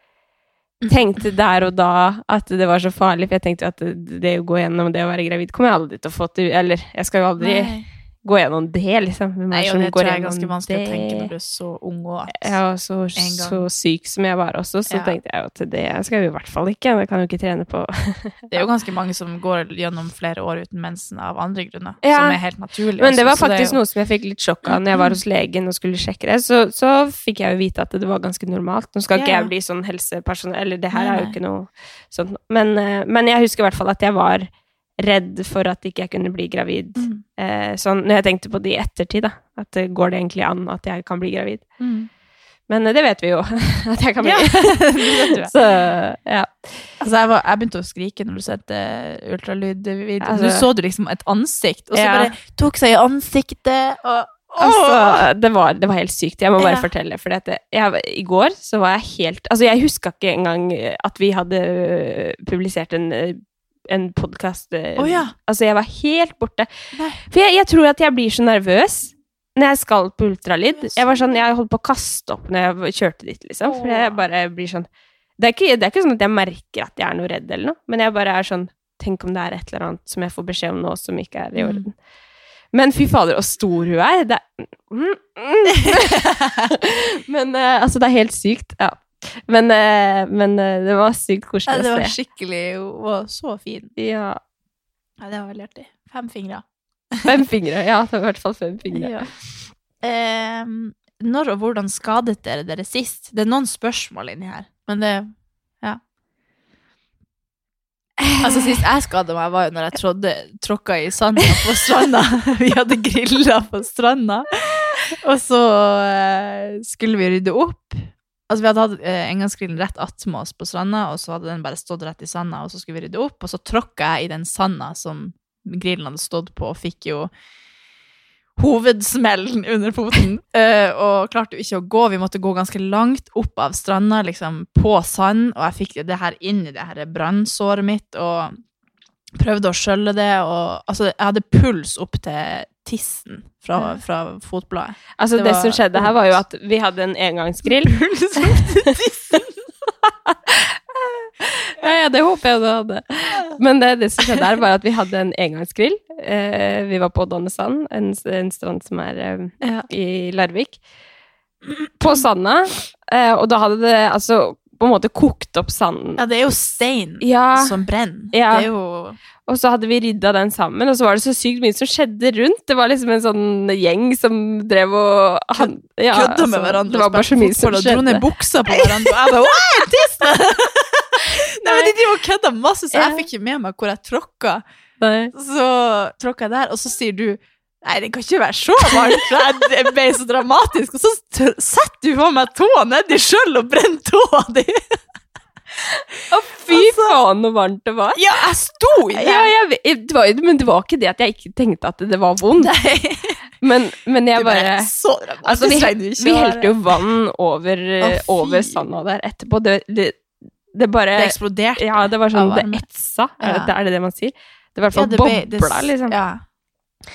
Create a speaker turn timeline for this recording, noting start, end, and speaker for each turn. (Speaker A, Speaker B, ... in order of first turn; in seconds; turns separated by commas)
Speaker A: 0.9-11.3, Speaker B: 7.4-7.8, Speaker B: 9.5-12.5, Speaker A: 12.3-18.5, Speaker B: 13.1-13.7, Speaker B: 14.9-15.2, Speaker B: 18.5-23.8, Speaker A: 22.0-22.4, Speaker A: 23.0-41.6, Speaker B: 24.6-25.2, Speaker B: 29.1-29.5, Speaker B: 30.9-31.4, Speaker B: 37.0-37.2, Speaker B: 41.8-42.1, Speaker A: 42.7-46.9, Speaker B: 44.2-45.5, Speaker B: 47.0-55.2, Speaker A: 50.2-50.6, Speaker A: 51.9-52.3, Speaker A: 54.6-66.7, Speaker B: 56.6-56.9, Speaker B: 65.0-65.3, Speaker B: 66.9-67.2, Speaker A: 67.2-74.8, Speaker B: 70.7-71.4, Speaker B: 73.6-74.2, Speaker A: 75.4-81.9, Speaker B: 81.5-81.9, Speaker A: 82.7-92.1, Speaker B: 85.8-86.7, Speaker B: 91.7-93.9, Speaker A: 94.0-94.4, Speaker B: 95.2-97.3, Speaker A: 97.2-99.1, Speaker B: 98.9-99.3, Speaker B: 100.0-106.0, Speaker A: 108.2-108.8, Speaker B: 108.4-127.3, Speaker B: 128.6-138.6, Speaker B: 139.3-146.4, Speaker A: 145.2-149.0, Speaker B: 147.8-149.5, Speaker A: 150.0-160.8, Speaker B: 159.6-159.9, Speaker B: 161.7-162.2, Speaker A: 162.0-166.2, Speaker B: 166.2-169.2, Speaker A: 167.2-167.8, Speaker A: 168.3-168.7, Speaker A: 169.5-179.1, Speaker B: 175.6-184.6, Speaker A: 181.2-181.9, Speaker A: 182.9-183.3, Speaker A: 185.0-185.3, Speaker B: 185.3-195.0, Speaker A: 188.9-189.2, Speaker A: 196.3-198.2, Speaker B: 196.6-197.1, Speaker B: 198.1-199.5, Speaker A: 198.9-202.7, Speaker B: 202.6-203.4, Speaker A: 203.6-204.9, Speaker B: 204.3-207.0, Speaker A: 205.4-210.2, Speaker B: 208.0-208.8, Speaker A: 210.7-216.2, Speaker B: 211.2-212.9, Speaker B: 213.4-213.7, Speaker B: 214.9-216.4